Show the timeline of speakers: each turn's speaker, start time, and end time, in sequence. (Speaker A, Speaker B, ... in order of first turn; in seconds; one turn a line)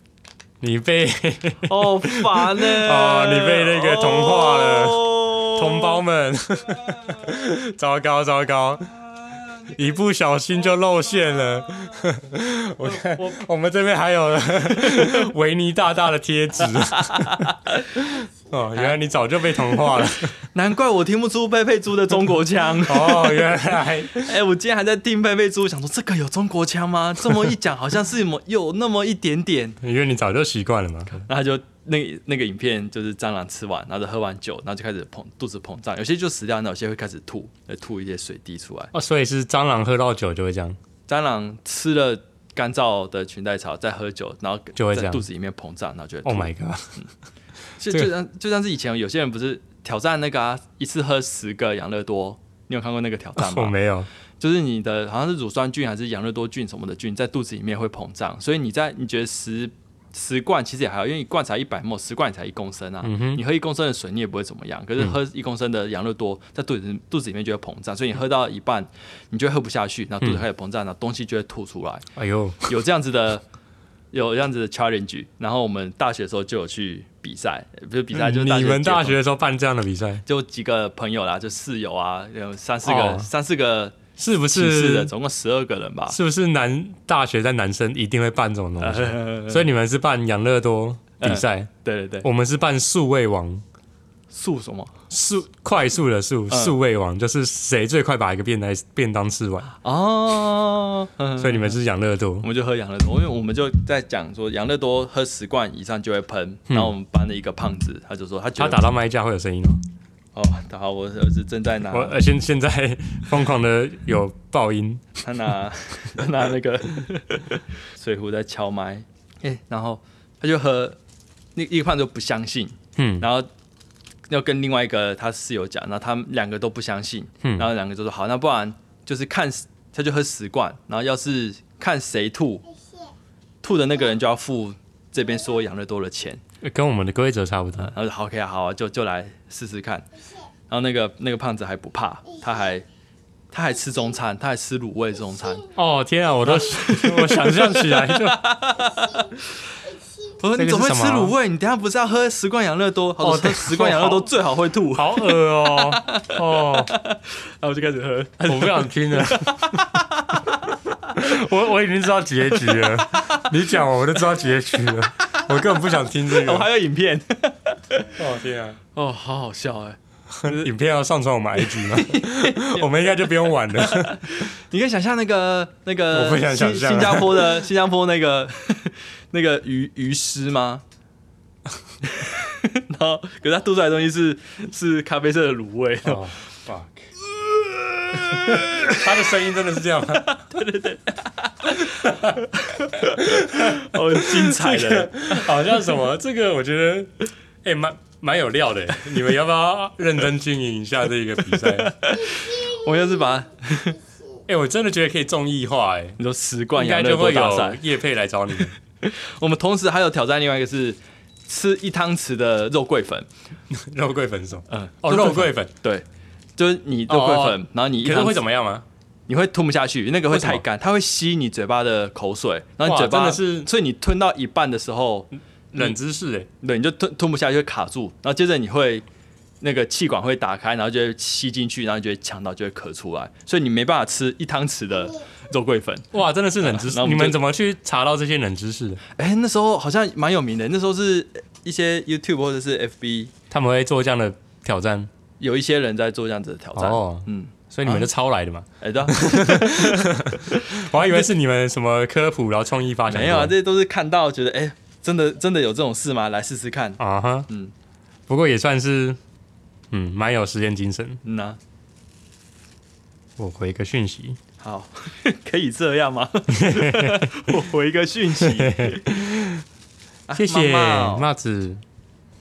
Speaker A: 0.6-8.9
Speaker B: 1.7-6.0
Speaker B: 6.8-7.3
Speaker B: 8.9-10.0
Speaker A: 9.7-17.5
Speaker B: 11.6-12.0
Speaker B: 12.8-13.4
Speaker B: 17.6-18.0
Speaker A: 18.1-20.3
Speaker B: 20.4-23.5
Speaker A: 22.8-24.4
Speaker B: 24.1-29.8
Speaker A: 29.8-31.2
Speaker B: 31.1-38.9
Speaker A: 38.9-40.8
Speaker B: 41.1-46.5
Speaker A: 44.8-45.2
Speaker A: 46.2-47.0
Speaker B: 47.8-53.7
Speaker A: 53.4-54.1
Speaker B: 54.4-72.0
Speaker A: 63.0-63.4
Speaker A: 72.2-72.7
Speaker B: 72.7-73.4
Speaker B: 74.1-79.2
Speaker A: 78.1-80.2
Speaker B: 80.2-84.0
Speaker A: 82.8-83.3
Speaker A: 84.2-85.1
Speaker B: 84.5-86.2
Speaker A: 86.1-91.7
Speaker B: 88.8-89.6
Speaker B: 91.2-92.3
Speaker A: 92.2-93.6
Speaker B: 94.3-94.9
Speaker A: 95.1-99.7
Speaker B: 96.5-96.8
Speaker B: 99.7-101.8
Speaker A: 101.4-102.5
Speaker B: 102.4-108.8
Speaker A: 106.7-106.9
Speaker A: 108.6-109.8
Speaker B: 110.3-112.2
Speaker A: 111.9-115.0
Speaker B: 115.2-121.0
Speaker B: 121.5-123.5
Speaker A: 123.0-123.2
Speaker B: 124.3-132.7
Speaker A: 127.4-127.7
Speaker B: 133.6-136.4
Speaker A: 136.6-137.9
Speaker B: 137.8-140.1
Speaker B: 140.7-142.8
Speaker B: 143.5-145.7
Speaker A: 145.7-148.4
Speaker B: 146.4-149.7
Speaker B: 150.4-160.8
Speaker A: 150.5-151.3
Speaker A: 153.2-154.3
Speaker A: 154.9-156.9
Speaker A: 158.4-159.8
Speaker A: 161.1-166.7
Speaker B: 162.7-163.5
Speaker B: 166.2-168.1
Speaker A: 168.1-168.8
Speaker B: 168.9-170.7
Speaker A: 170.4-174.3
Speaker B: 171.6-173.2
Speaker B: 173.8-180.8
Speaker A: 176.1-177.6
Speaker B: 182.0-186.2
Speaker A: 186.0-187.1
Speaker B: 187.3-189.0
Speaker A: 188.1-190.5
Speaker B: 190.5-195.5
Speaker A: 192.0-192.3
Speaker A: 193.1-197.1
Speaker A: 197.6-201.9
Speaker B: 201.5-204.0
Speaker A: 204.5-206.2
Speaker B: 206.2-207.8
Speaker A: 206.7-208.8
Speaker B: 208.6-213.3
Speaker A: 213.7-215.7
Speaker B: 214.7-216.1
Speaker B: 216.6-218.4
Speaker A: 217.1-218.8
Speaker B: 219.3-226.0
Speaker A: 220.3-220.6
Speaker A: 222.8-223.7
Speaker A: 225.7-226.5
Speaker B: 226.6-229.0
Speaker B: 229.6-236.1
Speaker A: 236.1-239.0
Speaker B: 236.6-237.4
Speaker B: 239.2-243.3
Speaker A: 243.5-245.1
Speaker B: 245.4-248.1
Speaker A: 246.8-253.5
Speaker B: 248.8-251.3
Speaker B: 253.1-257.7
Speaker A: 257.0-257.5
Speaker A: 258.3-259.2
Speaker A: 259.9-261.2
Speaker B: 261.2-261.6
Speaker A: 263.4-264.4
Speaker B: 264.6-269.1
Speaker A: 266.5-267.3
Speaker A: 268.4-269.6
Speaker B: 270.3-271.3
Speaker A: 270.3-271.8